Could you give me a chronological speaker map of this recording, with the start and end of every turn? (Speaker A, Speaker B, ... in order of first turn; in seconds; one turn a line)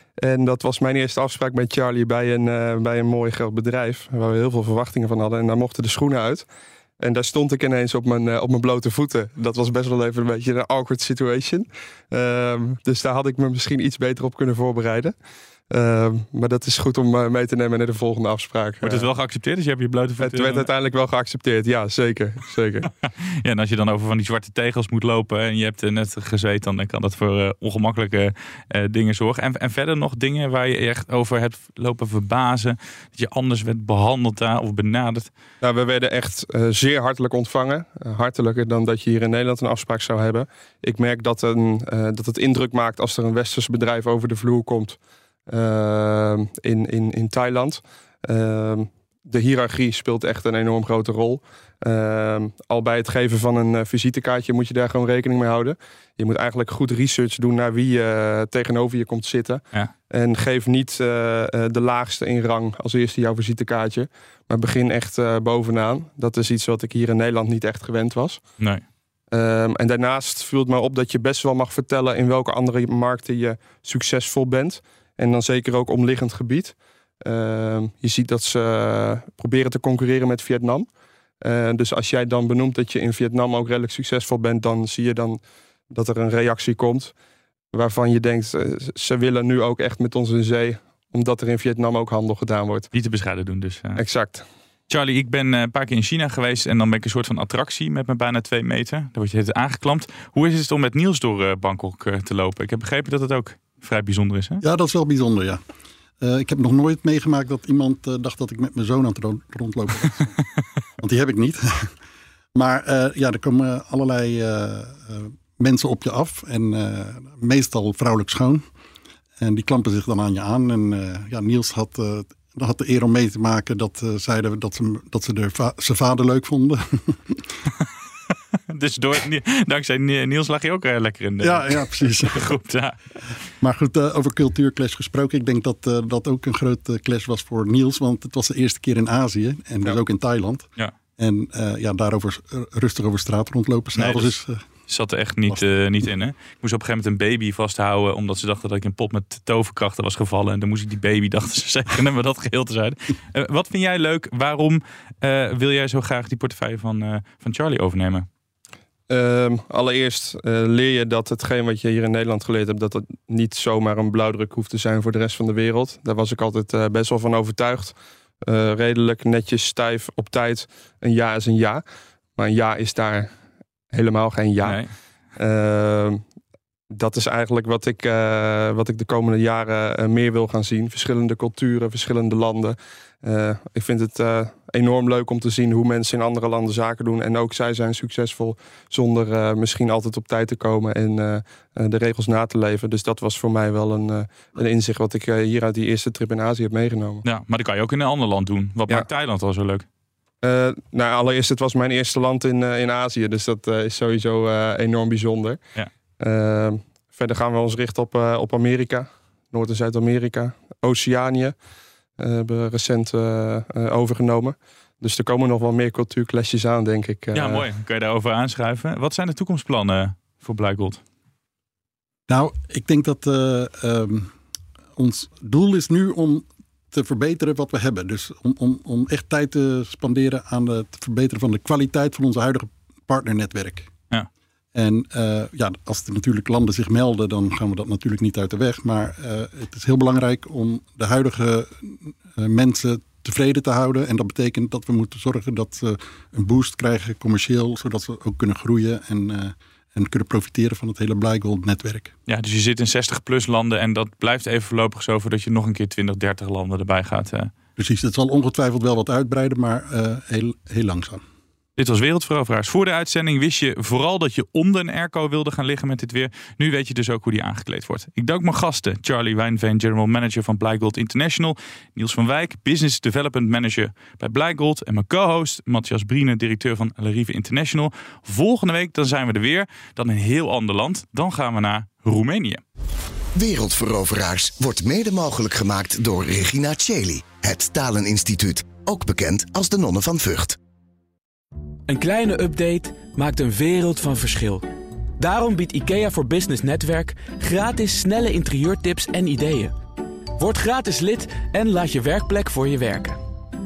Speaker A: 0.2-6.5
Speaker A: 7.0-15.2
Speaker A: 15.7-19.1
Speaker B: 18.8-20.7
Speaker A: 20.2-22.9
Speaker B: 23.3-35.3
Speaker A: 35.6-68.4
Speaker A: 69.3-80.9
Speaker A: 81.4-87.1
Speaker A: 87.7-92.9
Speaker B: 92.9-94.0
Speaker A: 94.0-94.5
Speaker B: 94.9-104.6
Speaker C: 104.6-105.6
Speaker C: 106.2-110.4
Speaker C: 111.0-111.9
Speaker C: 112.5-118.6
Speaker C: 119.4-127.5
Speaker B: 128.7-133.0
Speaker C: 131.4-132.5
Speaker C: 133.6-140.7
Speaker C: 141.2-144.6
Speaker B: 143.9-144.3
Speaker B: 144.9-158.3
Speaker A: 159.1-171.8
Speaker A: 172.4-173.3
Speaker A: 173.9-174.8
Speaker B: 174.6-174.9
Speaker A: 175.4-176.2
Speaker A: 176.9-197.2
Speaker B: 197.2-199.8
Speaker A: 200.4-205.6
Speaker A: 206.2-211.6
Speaker A: 212.2-217.6
Speaker B: 217.3-221.0
Speaker C: 222.3-224.3
Speaker C: 225.0-233.9
Speaker C: 234.7-252.1
Speaker B: 252.3-257.5
Speaker C: 257.8-261.2
Speaker B: 261.8-282.6
Speaker D: 283.3-290.6
Speaker E: 291.9-294.7
Speaker E: 295.2-299.7
Speaker E: 300.4-303.2